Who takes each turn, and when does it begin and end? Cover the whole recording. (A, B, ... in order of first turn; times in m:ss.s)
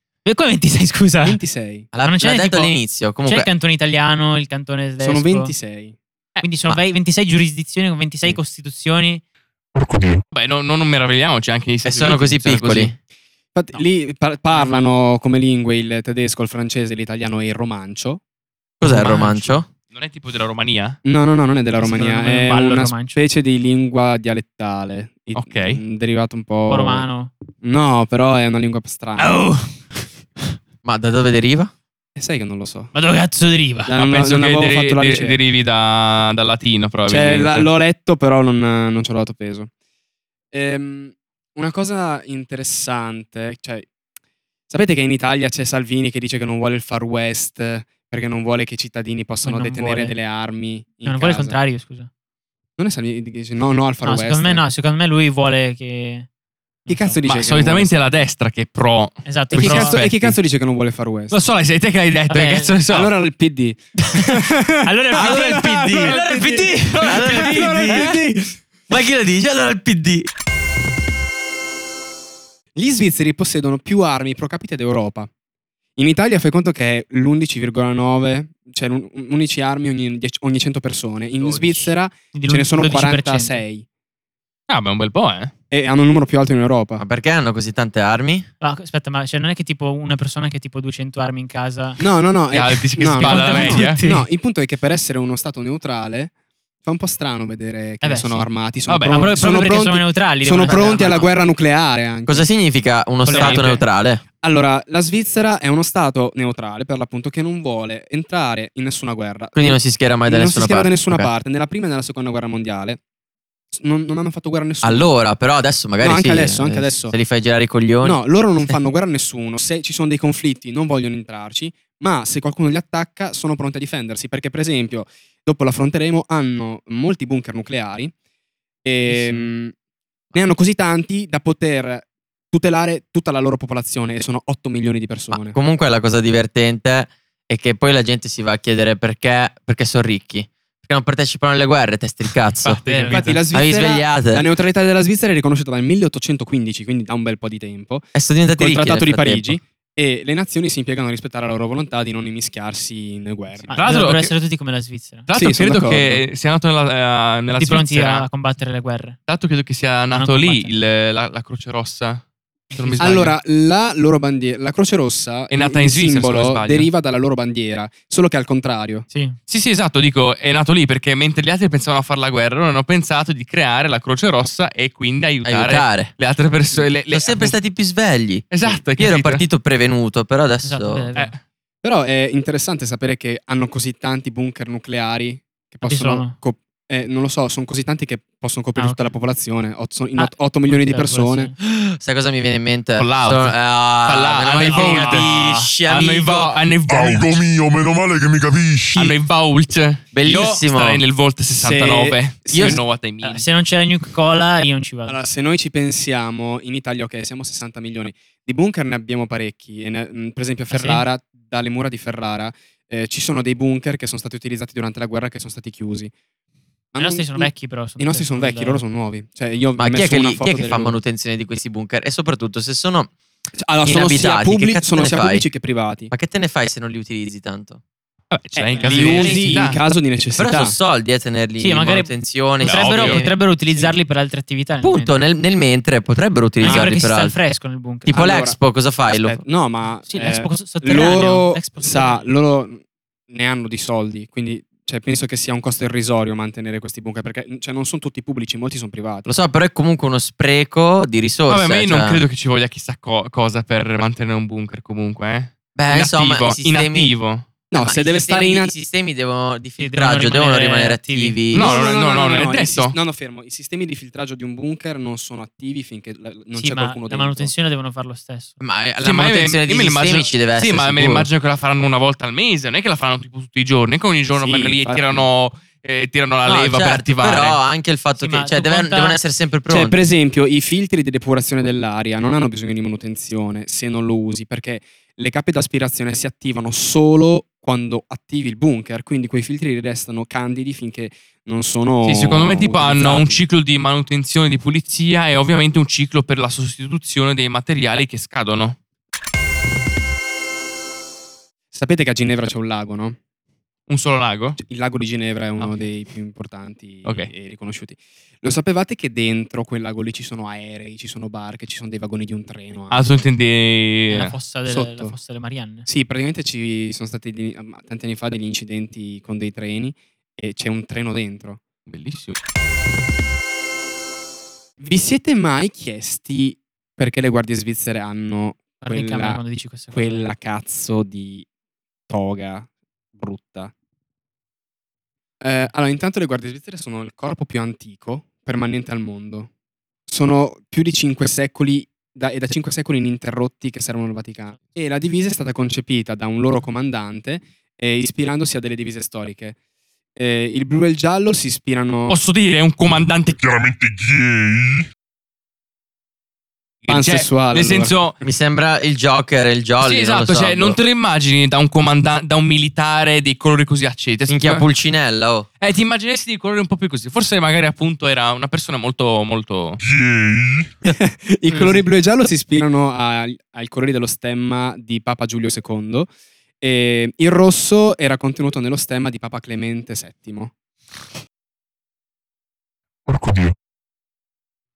0:00.2-0:01.4 A
0:01.2-0:01.9 B
0:01.9-0:03.5 C
0:02.0-0:05.5 A
0:05.0-0:06.0 B
0:06.4-0:09.2 A
0:10.3-0:12.9 D
0:11.8-0:13.0 C
0:13.5-0:18.2 B
0:14.5-0:14.9 A
0:18.8-0:19.7 C
0:18.8-0:19.6 A
0:19.9-0:21.0 D
0:21.0-0:27.0 B
0:21.7-0:23.2 A
0:25.3-0:25.8 D
0:26.7-0:27.3 A
0:27.6-0:29.3 B
0:29.2-0:29.7 A
0:30.8-0:31.7 C
0:32.2-0:32.9 B
0:32.9-0:33.9 A
0:33.8-0:35.4 B
0:33.9-0:37.7 D
0:37.1-0:39.7 B
0:40.5-0:43.8 B
0:44.7-0:51.6 B
0:49.4-0:50.2 A
0:51.0-0:52.1 A
0:52.8-0:54.6 B
0:54.0-0:56.3 A
0:56.8-0:57.2 A
0:56.9-0:57.9 B
0:57.2-1:00.4 D
0:59.2-1:00.0 A
0:59.5-1:01.4 B
1:01.3-1:03.1 D
1:02.3-1:02.7 A
1:02.9-1:08.6 B
1:04.1-1:08.1 A
1:05.1-1:08.2 C
1:08.9-1:10.3 C
1:12.8-1:15.3 B
1:16.0-1:23.8 B
1:21.4-1:21.9 C
1:22.3-1:23.6 A
1:24.7-1:25.5 D
1:25.7-1:27.0 B
1:27.0-1:28.5 C
1:28.6-1:32.0 A
1:32.0-1:36.3 B
1:32.5-1:34.0 D
1:33.1-1:34.2 A
1:36.8-1:42.5 B
1:38.0-1:38.5 A
1:38.9-1:39.2 D
1:39.1-1:41.2 A
1:40.6-1:41.3 C
1:42.3-1:44.2 C
1:43.2-1:43.7 A
1:43.3-1:43.8 D
1:43.3-1:43.7 B
1:44.4-1:53.0 B
1:49.5-1:51.3 C
1:53.7-1:55.1 B
1:54.8-1:58.2 C
1:56.0-1:57.1 B
1:58.0-2:08.1 B
2:08.8-2:09.7 B
2:09.1-2:09.5 A
2:10.3-2:15.6 B
2:15.3-2:22.8 C
2:22.6-2:23.4 D
2:22.8-2:23.2 A
2:23.1-2:34.0 B
2:23.5-2:24.4 C
2:28.1-2:29.6 C
2:33.7-2:35.3 A
2:33.7-2:34.3 D
2:35.3-2:38.3 D
2:35.3-2:36.2 B
2:37.5-2:39.2 A
2:39.3-2:42.2 D
2:40.1-2:40.7 A
2:42.7-2:43.3 A
2:42.8-2:43.3 D
2:43.0-2:49.0 B
2:45.5-2:46.9 D
2:49.1-2:49.4 A
2:49.5-2:57.6 D
2:55.4-2:56.1 C
2:57.1-3:01.1 C
2:58.5-2:59.4 D
3:00.6-3:01.3 A
3:01.8-3:11.5 B
3:05.8-3:06.3 A
3:08.8-3:09.1 A
3:10.2-3:11.5 A
3:11.6-3:16.6 C
3:13.0-3:17.4 D
3:14.6-3:15.3 A
3:16.9-3:19.2 E
3:18.9-3:23.5 D
3:20.1-3:21.0 C
3:21.5-3:22.8 B
3:22.5-3:22.8 C
3:23.2-3:25.2 A
3:25.1-3:36.1 B
3:30.7-3:31.0 A
3:36.9-3:41.0 B
3:37.0-3:38.8 A
3:39.8-3:43.1 C
3:43.6-3:46.1 B
3:43.8-3:45.5 C
3:46.1-3:47.8 C
3:48.3-3:49.8 D
3:48.6-3:50.8 B
3:48.8-3:49.7 A
3:50.4-3:53.9 C
3:51.6-3:55.2 A
3:52.6-3:53.2 D
3:54.8-3:57.4 C
3:56.6-3:58.1 A
3:56.6-3:56.9 B
3:58.0-3:59.4 C
3:58.1-4:09.3 B
4:00.0-4:02.3 A
4:09.2-4:12.2 C
4:11.5-4:17.4 D
4:15.7-4:17.1 C
4:17.7-4:18.7 B
4:17.8-4:21.7 C
4:19.8-4:21.4 A
4:21.5-4:22.9 D
4:21.5-4:27.5 B
4:26.5-4:28.6 A
4:28.6-4:31.3 C
4:29.0-4:37.6 D
4:34.3-4:35.3 B
4:36.4-4:40.0 C
4:38.2-4:39.2 A
4:39.7-4:53.4 B
4:52.0-4:58.8 D
5:01.7-5:03.2 B
5:03.9-5:04.6 D
5:04.6-5:13.3 B
5:05.6-5:05.8 D
5:07.0-5:07.3 D
5:12.9-5:14.3 D
5:14.1-5:15.8 A
5:14.6-5:15.2 B
5:15.8-5:21.6 B
5:21.8-5:22.4 D
5:24.8-5:31.4 B
5:28.8-5:30.3 A
5:32.1-5:33.7 B
5:35.4-5:39.5 B
5:40.1-5:49.6 B
5:50.1-5:52.2 B
5:52.1-5:53.4 D
5:53.4-5:54.9 E
5:56.8-5:58.2 D
5:56.9-5:58.0 B
5:58.2-6:00.8 C
5:59.8-6:04.7 D
6:04.3-6:05.5 C
6:05.6-6:09.8 D
6:09.8-6:10.7 E
6:10.8-6:16.1 B
6:16.6-6:20.5 B
6:23.1-6:23.5 E